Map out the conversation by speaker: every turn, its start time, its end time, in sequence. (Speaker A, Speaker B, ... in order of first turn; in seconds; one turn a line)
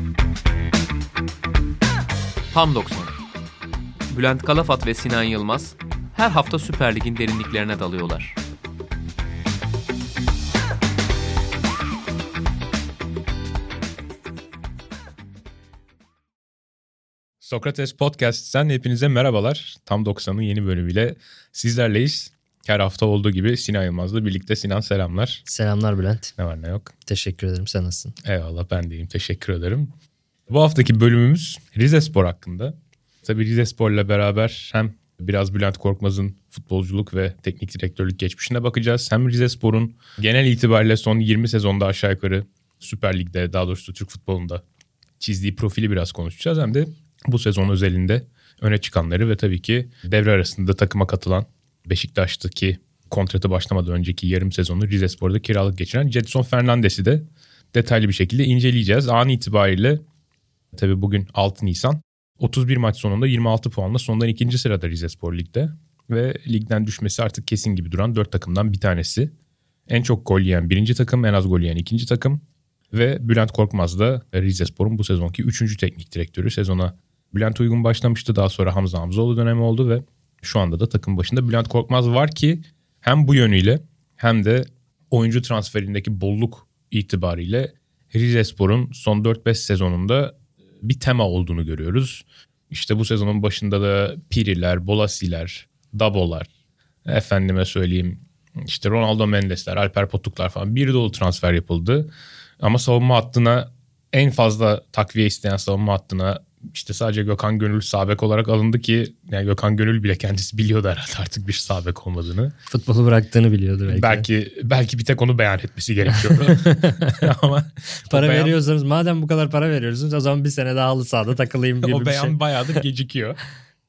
Speaker A: 2.5-3.2
Speaker A: 4.1-8.4
Speaker B: 17.4-25.4
Speaker C: 25.5-26.3
Speaker B: 26.4-26.9
Speaker C: 27.1-28.1
Speaker B: 28.2-29.9
Speaker B: 30.5-44.6
Speaker B: 45.2-60.0
Speaker B: 60.7-69.3
Speaker B: 69.9-72.4
Speaker B: 72.9-96.5
Speaker B: 97.1-112.5
Speaker C: 112.7-114.3
Speaker B: 113.9-118.5
Speaker C: 116.4-117.2
Speaker C: 118.1-122.8
Speaker B: 121.8-123.4